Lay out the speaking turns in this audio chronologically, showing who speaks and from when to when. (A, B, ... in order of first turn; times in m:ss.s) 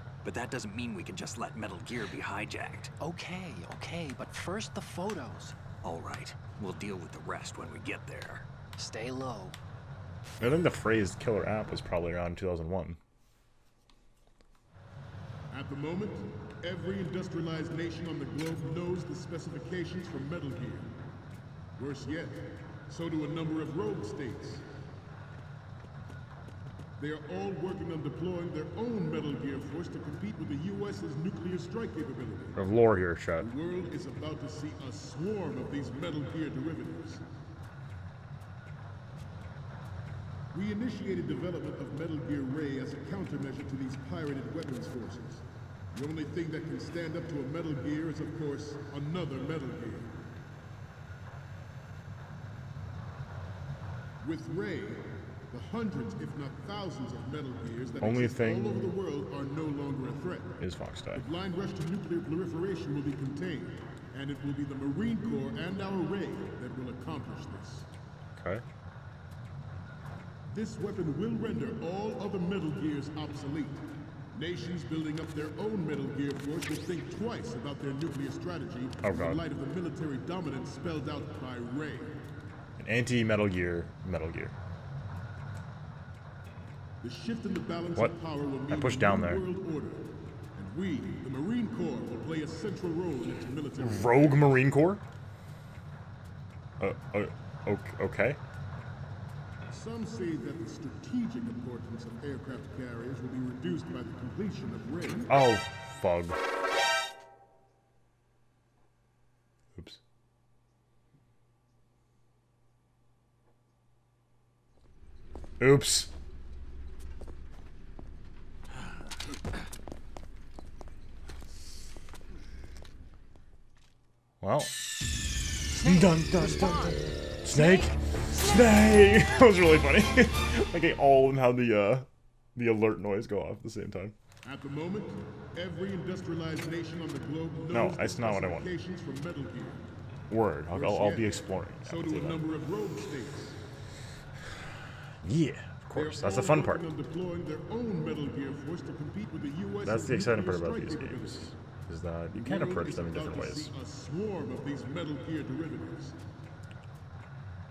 0:00.2-0:02.9 A
0:03.0-0:05.6 B
0:05.8-0:08.5 A
0:08.8-0:09.6 B
0:10.4-0:13.0 C
0:15.5-0:20.9 D
0:21.8-0:24.6 D
0:27.0-0:32.6 D
0:32.6-0:33.5 C
0:33.4-0:37.2 D
0:40.5-0:50.1 D
0:54.2-1:00.6 D
0:58.0-0:58.9 C
1:00.6-1:01.2 C
1:01.1-1:07.9 D
1:08.4-1:08.6 C
1:10.5-1:22.2 D
1:19.0-1:19.4 C
1:22.8-1:24.6 C
1:27.0-1:34.5 D
1:28.7-1:29.4 C
1:33.8-1:35.0 C
1:36.8-1:38.4 C
1:39.7-1:45.3 D
1:45.3-1:46.4 C
1:49.8-1:50.0 C
1:55.6-1:56.1 C
2:04.4-2:04.8 C
2:05.7-2:14.2 C
2:05.8-2:08.6 B
2:14.4-2:19.8 D
2:17.7-2:18.7 C
2:20.3-2:22.4 C
2:20.7-2:23.6 D
2:25.2-2:26.9 C
2:25.9-2:31.5 D
2:29.8-2:33.7 C
2:32.4-2:36.2 D